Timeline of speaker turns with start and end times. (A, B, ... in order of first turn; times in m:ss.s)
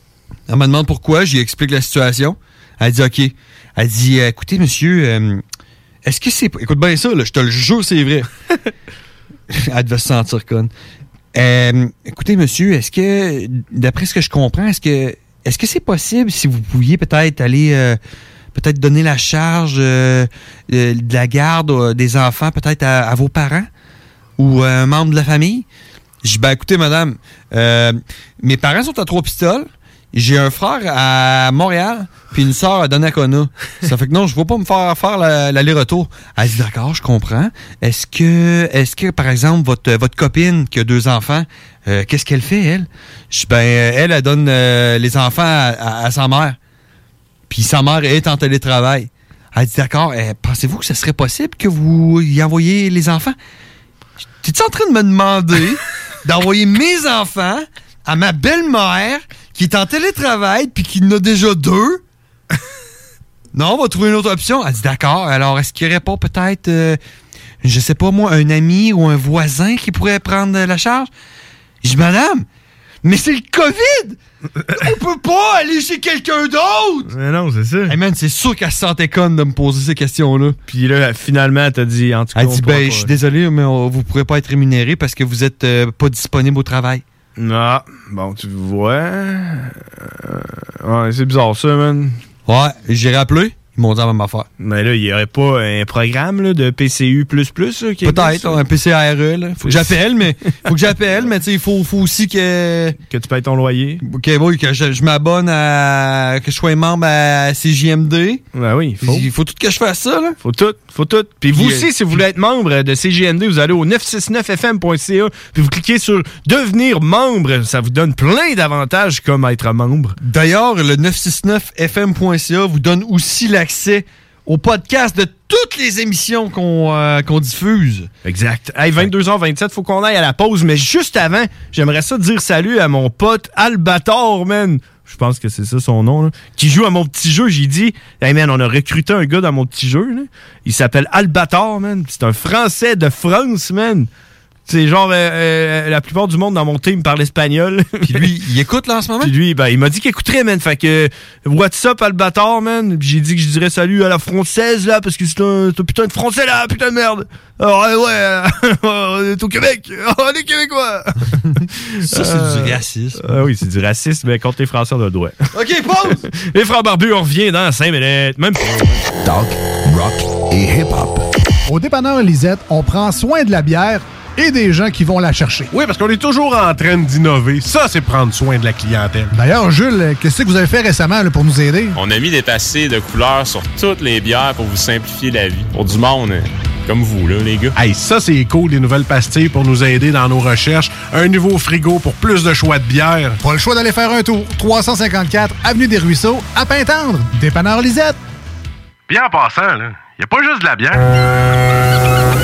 0:00.5-0:05.4 A
0:06.0-0:08.3 A
0:09.5-0:10.7 A
0:11.3-0:18.0 A
0:18.6-0:23.7 A
0:24.4-0:25.7 A
0:26.2-0:46.6 A
0:47.5-0:53.4 A
0:54.4-1:02.0 A
1:03.5-1:07.0 A
1:07.6-1:11.1 A
1:11.8-1:12.5 A
1:13.0-1:14.2 A
1:14.7-1:17.1 A
1:17.1-1:18.0 B
1:17.9-1:20.6 A
1:20.7-1:23.1 B
1:22.4-1:27.0 A
1:27.4-1:32.2 B
1:32.5-1:34.5 A
1:34.6-1:38.6 B
1:38.0-1:43.0 A
1:39.6-1:39.9 B
1:43.1-1:44.0 B
1:44.0-1:48.4 A
1:48.5-1:49.3 B
1:49.0-1:50.4 A
1:50.4-2:00.2 B
1:51.5-1:51.9 A
2:00.2-2:08.1 A
2:08.2-2:24.1 B
2:24.7-2:28.3 B
2:28.0-2:29.3 A
2:29.2-2:41.4 B
2:41.6-2:43.2 A
2:42.0-2:45.4 B
2:45.5-2:46.2 A
2:46.1-2:48.7 B
2:49.2-2:51.2 C
2:51.7-2:55.7 D
2:55.7-2:59.3 E
2:59.3-3:02.0 D
3:02.0-3:07.7 F
3:07.8-3:13.4 E
3:13.4-3:18.2 D
3:19.1-3:21.0 E